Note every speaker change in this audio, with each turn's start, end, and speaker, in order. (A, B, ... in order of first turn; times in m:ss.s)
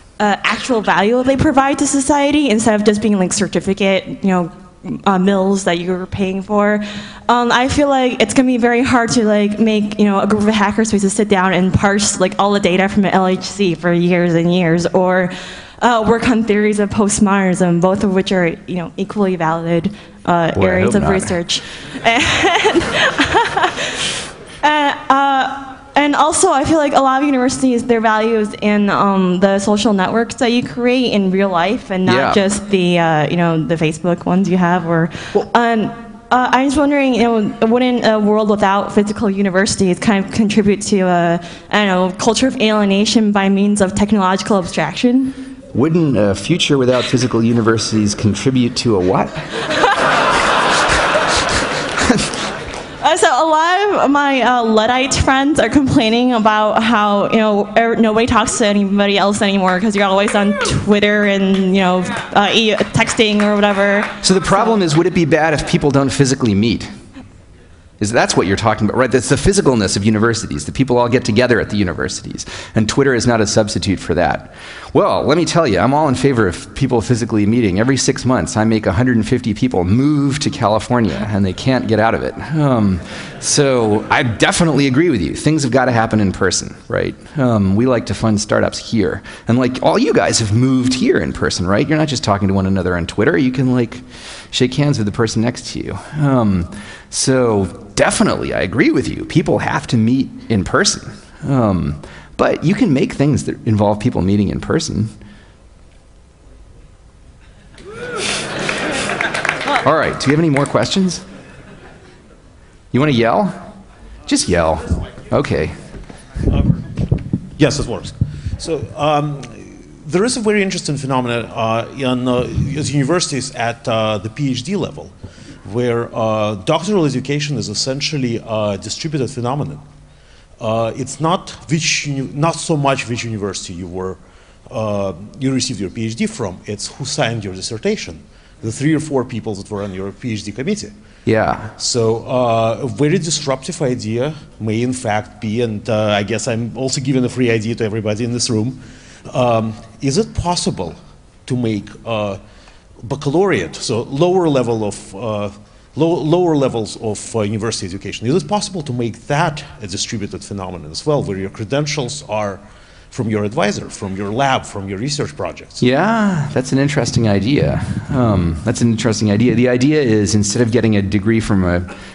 0:00.2-0:24.0 A
0:20.5-0:21.3 B
0:24.6-0:45.4 A
0:32.0-0:32.4 B
0:45.7-0:49.5 B
0:53.0-1:04.2 A
1:04.2-1:06.9 B
1:08.0-1:45.1 B
1:49.8-1:51.2 B
1:52.9-1:53.6 B
1:54.3-1:55.8 B
1:56.5-1:56.8 C
1:57.6-2:05.1 C
2:05.6-2:09.8 C
2:10.6-2:20.9 C
2:21.2-2:21.7 B
2:21.8-2:32.4 C
2:33.0-2:45.8 C
2:45.8-2:51.9 B